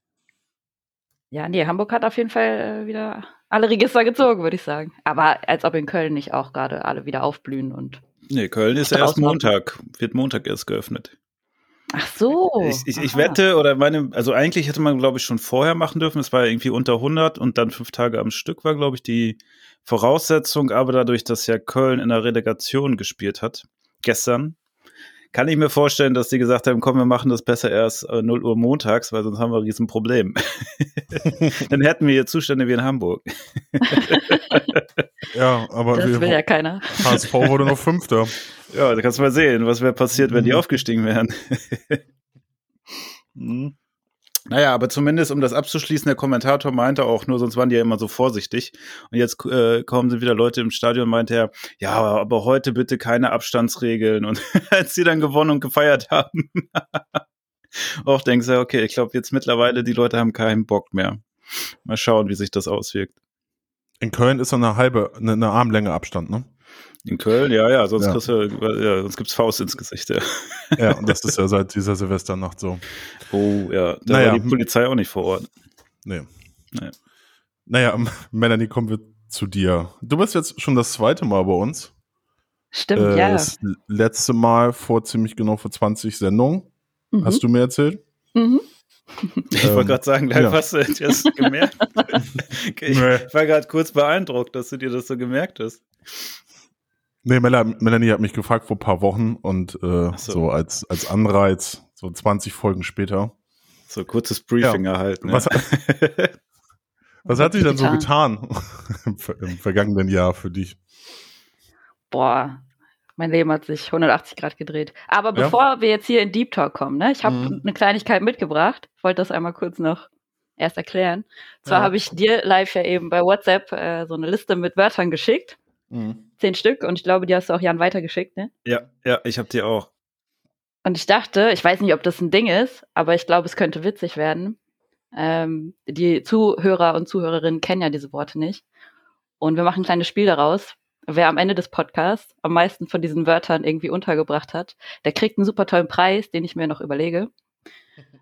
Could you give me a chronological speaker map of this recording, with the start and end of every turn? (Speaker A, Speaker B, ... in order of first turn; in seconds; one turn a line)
Speaker A: 1.3-8.0
Speaker B: 8.3-11.1
Speaker A: 8.8-9.4
Speaker A: 11.9-13.4
Speaker B: 12.6-24.6
Speaker B: 25.3-34.9
Speaker A: 33.9-34.6
Speaker C: 35.3-36.4
Speaker A: 35.9-37.3
Speaker C: 36.9-38.3
Speaker B: 38.7-42.0
Speaker B: 43.4-43.7
Speaker B: 44.5-57.0
Speaker B: 57.8-63.1
Speaker C: 64.0-66.5
Speaker B: 67.0-71.2
Speaker C: 70.8-72.8
Speaker B: 73.3-75.5
Speaker C: 74.1-74.5
Speaker C: 77.7-81.9
Speaker A: 82.7-83.5
Speaker C: 83.0-86.7
Speaker A: 87.1-87.4
Speaker C: 87.2-88.0
Speaker A: 88.3-88.6
Speaker A: 89.2-89.5
Speaker B: 89.5-96.3
Speaker C: 89.6-90.6
Speaker A: 91.2-92.1
Speaker C: 92.9-93.3
Speaker C: 97.2-103.3
Speaker B: 100.1-100.4
Speaker B: 103.9-106.3
Speaker C: 104.6-105.6
Speaker C: 107.3-110.8
Speaker A: 107.3-108.1
Speaker A: 112.1-112.6
Speaker A: 113.2-120.1
Speaker C: 117.2-117.5
Speaker A: 120.6-125.6
Speaker C: 125.9-126.2
Speaker A: 126.4-128.5
Speaker B: 128.7-129.9
Speaker A: 130.8-134.6
Speaker A: 135.1-138.6
Speaker A: 139.4-147.3